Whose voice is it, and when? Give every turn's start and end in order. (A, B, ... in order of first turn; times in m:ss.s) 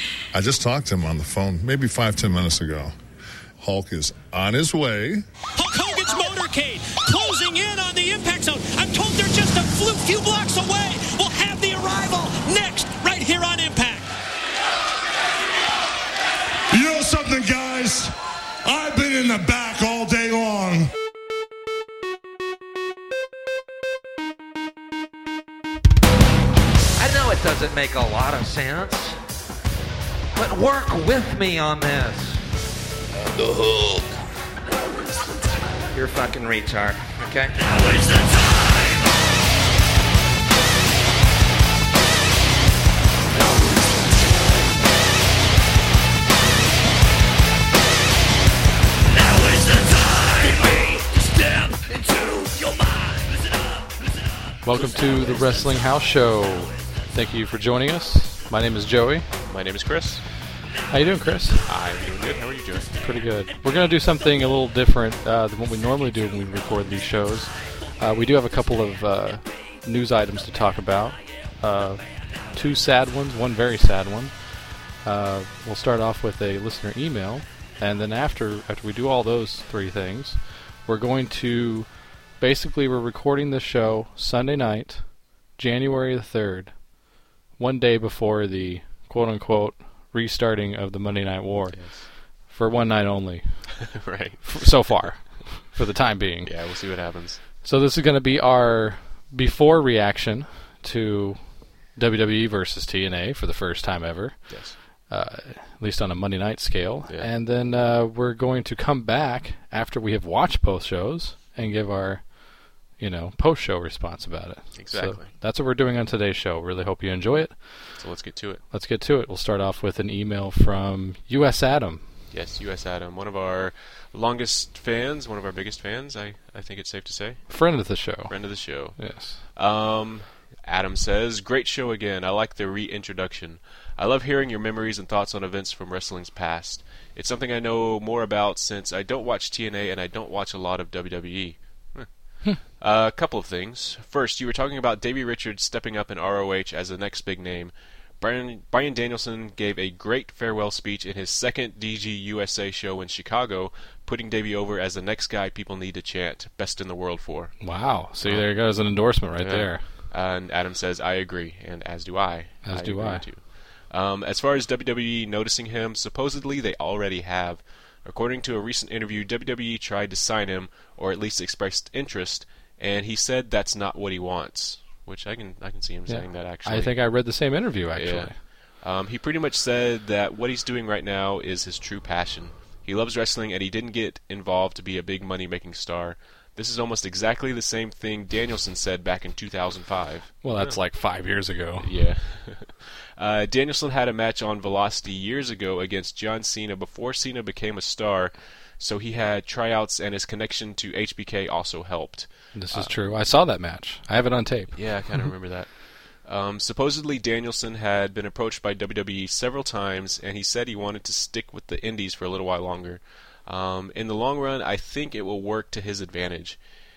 0:00.3-0:02.9 A
0:03.6-0:05.2 A
0:05.6-0:14.1 B
0:16.7-0:18.1 C
0:18.6-0:20.9 C
0:27.0-0:29.2 D
0:30.4-0:32.4 D
0:33.6-0:33.9 D
0:35.9-0:38.2 D
0:54.6-0:59.3 E
0:59.4-1:00.2 F
1:00.9-1:01.6 E
1:01.6-1:03.0 F
1:03.0-1:27.0 E
1:27.5-1:33.9 E
1:31.7-1:32.1 F
1:33.8-1:35.1 F
1:34.4-1:36.6 E
1:36.4-1:37.4 F
1:37.6-1:57.9 E
1:44.5-1:44.8 F
1:54.8-1:55.3 F
1:58.0-1:58.6 F
1:58.7-2:02.0 E
2:02.3-2:07.6 F
2:07.5-2:09.4 E
2:08.2-2:38.6 F
2:37.6-2:39.8 E
2:39.4-2:57.3 F
2:42.6-2:43.3 E
2:56.1-2:58.4 E
2:57.9-3:10.8 F
3:10.4-3:12.0 E
3:11.8-3:23.0 F
3:22.5-3:25.3 E
3:24.7-3:36.6 F